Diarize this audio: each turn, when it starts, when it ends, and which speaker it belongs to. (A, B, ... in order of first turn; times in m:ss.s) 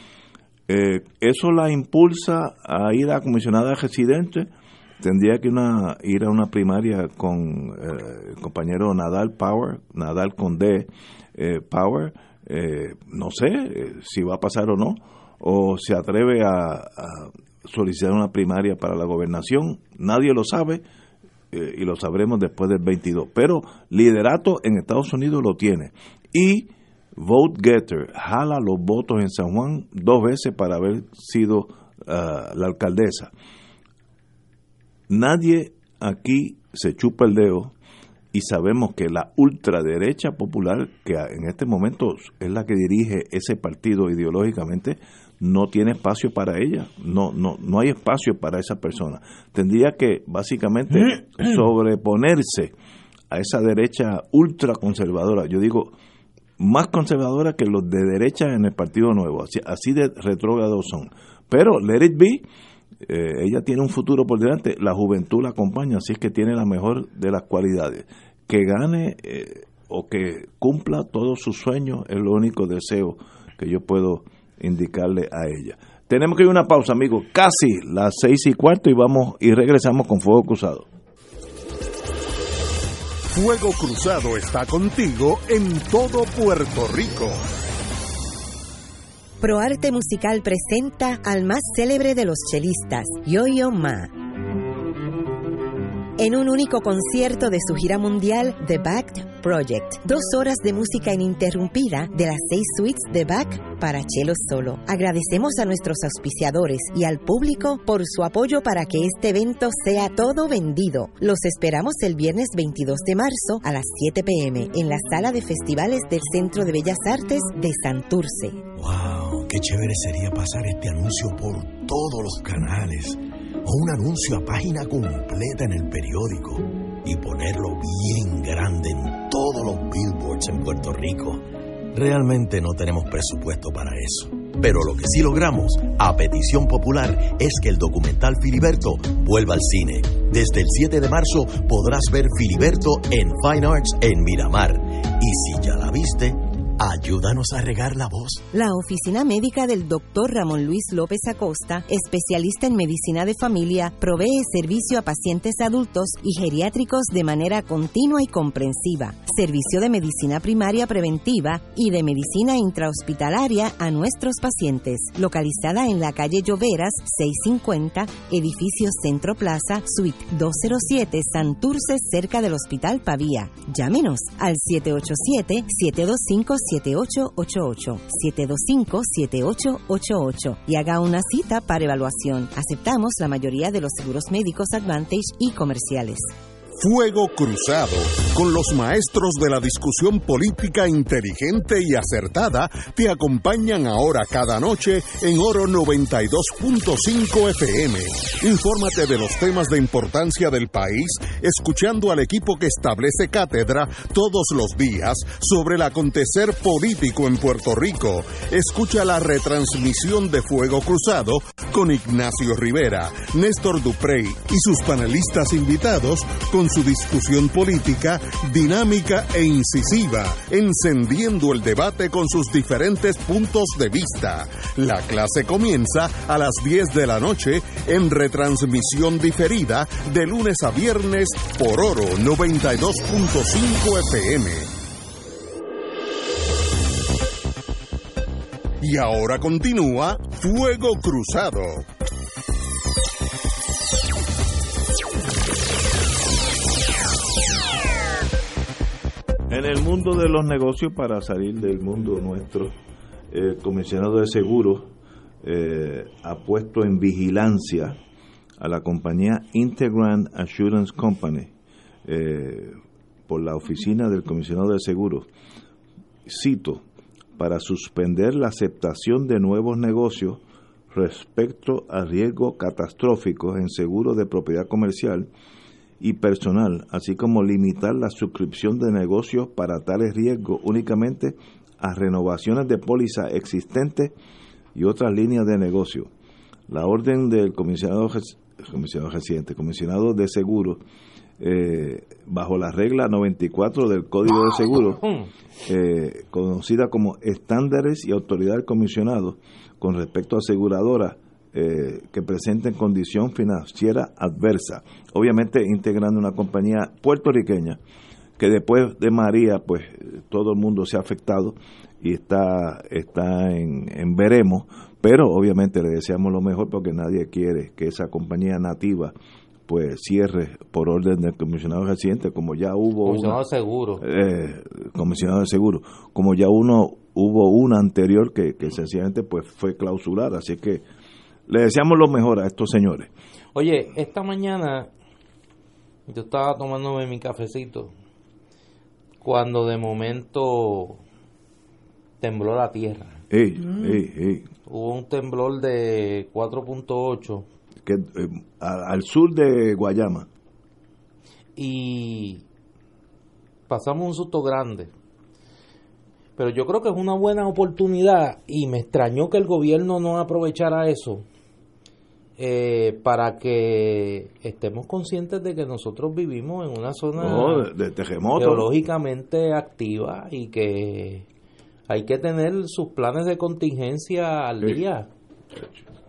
0:00.7-0:20.8 A
0:21.5-0:33.3 A
0:35.1-0:37.7 A
0:38.3-0:52.7 A
0:53.3-0:55.9 A
0:56.6-1:02.4 A
1:03.0-1:20.9 A
1:23.3-1:27.4 B
1:29.4-1:34.1 C
1:36.2-1:58.6 C
1:58.8-2:11.4 D
2:11.9-2:28.4 D
2:28.5-3:06.3 C
3:06.8-3:54.7 B
3:58.8-4:01.9 B
4:09.5-4:12.8 A
4:13.3-4:14.9 A
4:15.4-4:18.0 A
4:18.6-4:21.5 A
4:22.0-4:22.8 A
4:23.3-4:25.3 A
4:26.2-4:26.8 A
4:27.4-4:35.3 A
4:36.0-4:44.1 A
4:44.7-4:46.1 A
4:46.7-4:50.8 A
4:51.4-4:55.1 A
4:55.6-5:07.8 A
5:08.4-5:19.1 A
5:19.7-5:23.4 A
5:23.0-5:24.0 E
5:24.0-5:30.8 A
5:31.5-5:33.1 A
5:33.5-5:34.9 E
5:36.1-5:37.9 E
5:39.2-5:41.0 E
5:42.2-5:43.2 E
5:43.3-5:44.4 A
5:44.7-5:47.4 E
5:47.8-5:50.3 A
5:51.6-5:52.4 E
5:53.7-5:54.9 E
5:56.4-6:01.2 E
6:02.4-6:07.7 E
6:07.2-6:08.7 A
6:08.3-6:11.2 E
6:11.9-6:15.1 E